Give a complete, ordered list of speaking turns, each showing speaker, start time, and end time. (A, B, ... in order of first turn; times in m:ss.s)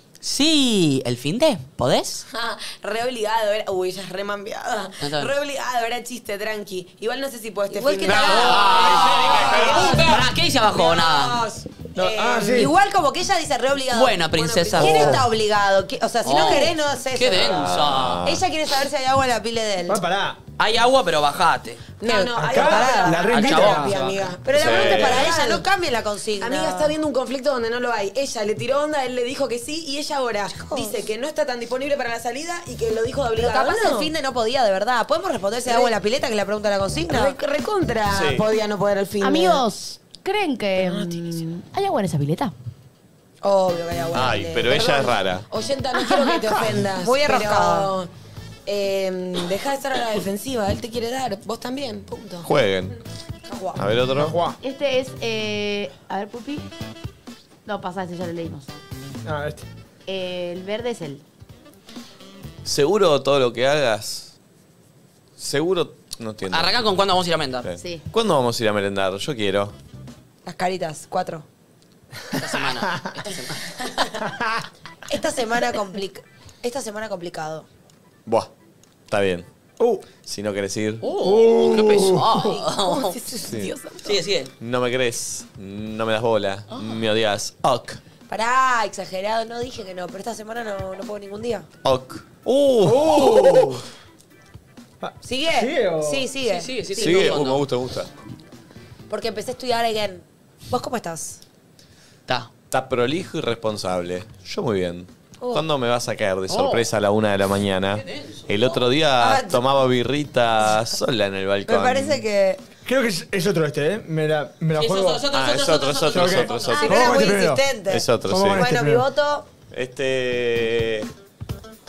0:00.2-0:02.2 A
0:02.3-0:12.7 B
0:05.0-0:05.3 A
0:07.7-0:10.0 C
0:08.1-0:10.2 D
0:08.1-0:11.4 A
0:12.0-0:12.7 E
0:12.3-0:14.2 C
0:13.9-0:15.2 A
0:14.3-0:15.2 B
0:14.8-0:17.7 C
0:14.9-0:15.2 E
0:16.2-0:18.2 A
0:17.3-0:18.4 D
0:18.2-0:20.0 C
0:19.9-0:20.4 E
0:20.6-0:21.8 A
0:22.0-0:25.7 B
0:22.0-0:23.3 C
0:22.4-0:24.1 E
0:23.2-0:24.2 A
0:24.4-0:27.0 C
0:24.5-0:25.3 D
0:26.4-0:34.1 B
0:30.5-0:31.0 C
0:33.4-0:37.4 C
0:35.7-0:36.0 B
0:37.1-0:39.6 B
0:38.1-0:38.5 D
0:39.2-0:42.5 F
0:40.8-0:41.4 B
0:43.4-0:45.1 C
0:44.1-0:45.5 D
0:44.7-0:48.1 B
0:46.0-0:46.4 F
0:47.0-0:47.9 C
0:48.7-0:52.5 B
0:52.4-0:53.0 D
0:53.5-0:53.8 C
0:53.8-0:54.4 D
0:54.2-0:54.6 E
0:54.6-0:56.7 F
0:57.7-0:58.8 F
0:59.2-0:59.7 E
1:00.1-1:01.2 F
1:02.6-1:04.3 D
1:05.4-1:06.8 D
1:06.5-1:07.7 A
1:07.6-1:09.8 D
1:07.8-1:08.1 F
1:10.5-1:11.4 C
1:12.3-1:14.0 A
1:15.1-1:17.7 C
1:18.3-1:18.5 D
1:19.1-1:19.5 D
1:19.8-1:20.1 E
1:20.2-1:21.0 D
1:21.0-1:23.2 A
1:21.2-1:22.4 E
1:22.4-1:24.2 B
1:24.0-1:24.5 A
1:24.6-1:28.0 D
1:26.7-1:27.0 A
1:28.3-1:31.7 C
1:31.8-1:33.8 D
1:32.8-1:33.8 E
1:35.0-1:36.3 E
1:35.2-1:37.4 C
1:36.4-1:37.7 A
1:37.0-1:38.1 D
1:39.1-1:41.4 C
1:42.7-1:52.2 D
1:45.4-1:45.7 C
1:46.5-1:46.9 A
1:48.0-1:48.5 A
1:49.2-1:49.6 C
1:51.7-1:52.6 C
1:52.9-1:55.2 E
1:54.7-1:57.1 A
1:55.3-1:57.2 D
1:56.1-1:57.6 E
1:56.7-1:59.5 C
1:57.9-1:58.6 D
1:58.3-1:59.1 E
1:59.7-2:01.1 D